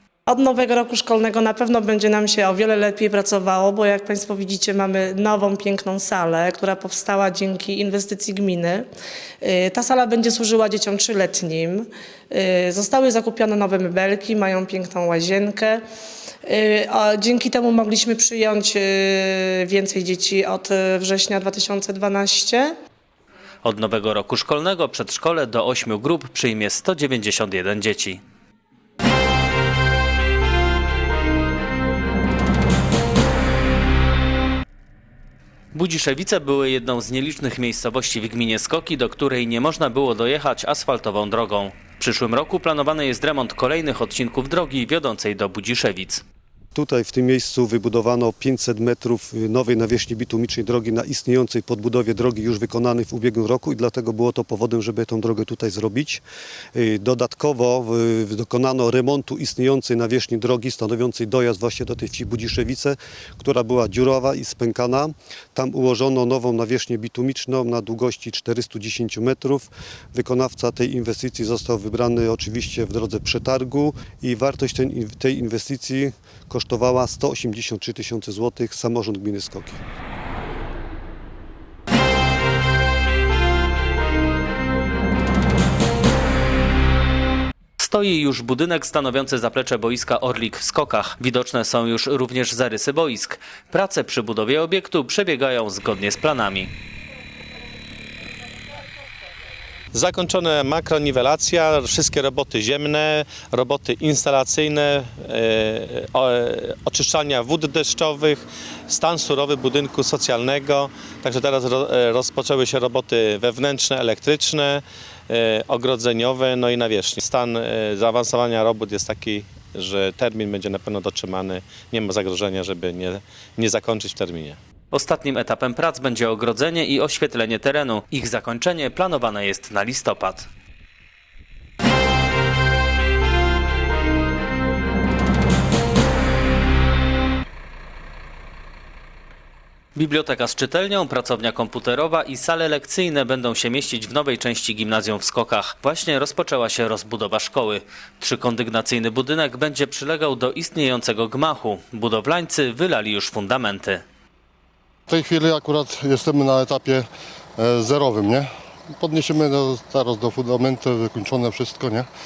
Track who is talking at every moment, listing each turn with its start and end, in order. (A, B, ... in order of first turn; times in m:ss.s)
0:00.3-0:08.8 A
0:09.4-0:15.8 A
0:16.5-0:22.7 A
0:23.6-0:28.2 B
0:35.7-0:46.2 B
0:46.7-0:56.2 C
0:56.7-1:19.8 C
1:27.8-1:36.7 B
1:39.9-2:04.6 D
2:04.9-2:10.5 B
2:19.9-2:34.0 B
2:35.1-2:42.1 E